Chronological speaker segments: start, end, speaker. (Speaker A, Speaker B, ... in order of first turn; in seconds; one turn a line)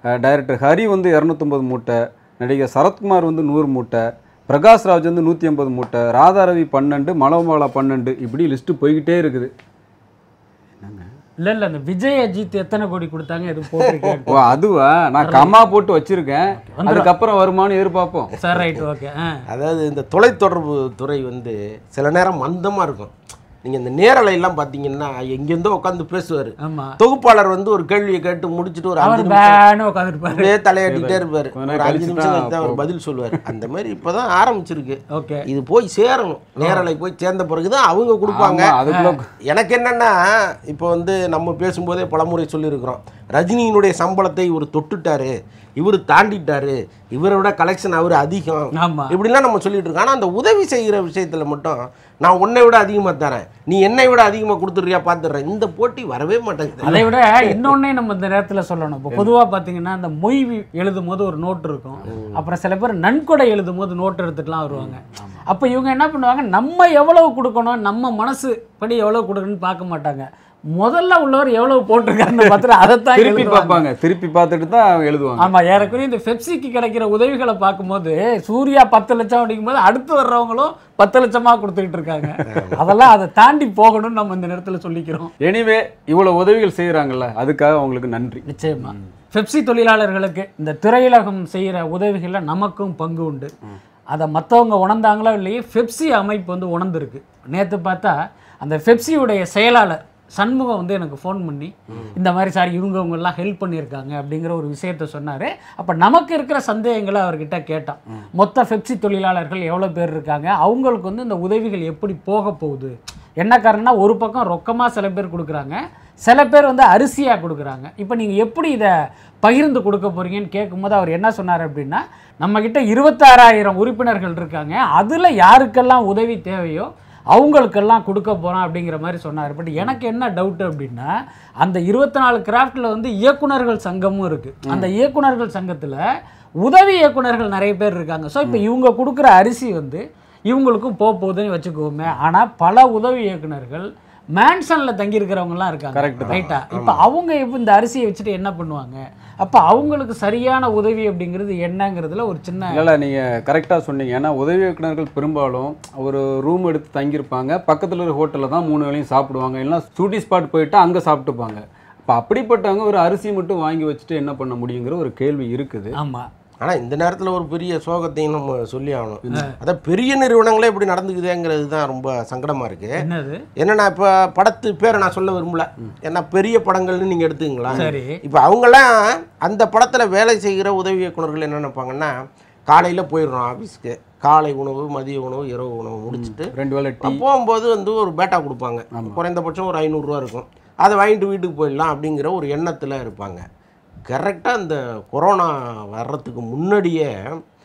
Speaker A: 0.2-9.5
Speaker A: 10.8-11.1
Speaker B: 11.4-14.5
Speaker C: 13.8-14.1
Speaker A: 14.3-18.3
Speaker B: 15.2-15.5
Speaker B: 16.8-17.1
Speaker B: 18.4-19.4
Speaker C: 18.5-18.8
Speaker C: 19.5-23.1
Speaker C: 23.6-29.6
Speaker B: 26.6-26.9
Speaker B: 29.0-30.5
Speaker C: 30.3-38.8
Speaker A: 30.9-32.8
Speaker B: 35.1-35.5
Speaker A: 38.3-39.2
Speaker B: 38.9-39.2
Speaker C: 39.4-57.5
Speaker B: 48.8-49.1
Speaker B: 56.8-73.8
Speaker A: 62.0-62.2
Speaker C: 62.1-62.4
Speaker A: 64.7-65.4
Speaker A: 73.1-75.5
Speaker B: 75.4-85.3
Speaker C: 82.5-82.8
Speaker A: 85.4-89.0
Speaker B: 88.4-93.5
Speaker B: 94.1-131.1
Speaker B: 131.6-136.0
Speaker B: 136.6-152.8
Speaker A: 145.9-146.4
Speaker C: 146.1-147.0
Speaker A: 152.7-165.9
Speaker B: 165.9-166.3
Speaker C: 166.6-172.9
Speaker B: 173.0-173.4
Speaker C: 173.6-182.1
Speaker B: 177.7-178.2
Speaker C: 182.7-193.4
Speaker A: 186.1-187.2
Speaker C: 194.1-197.4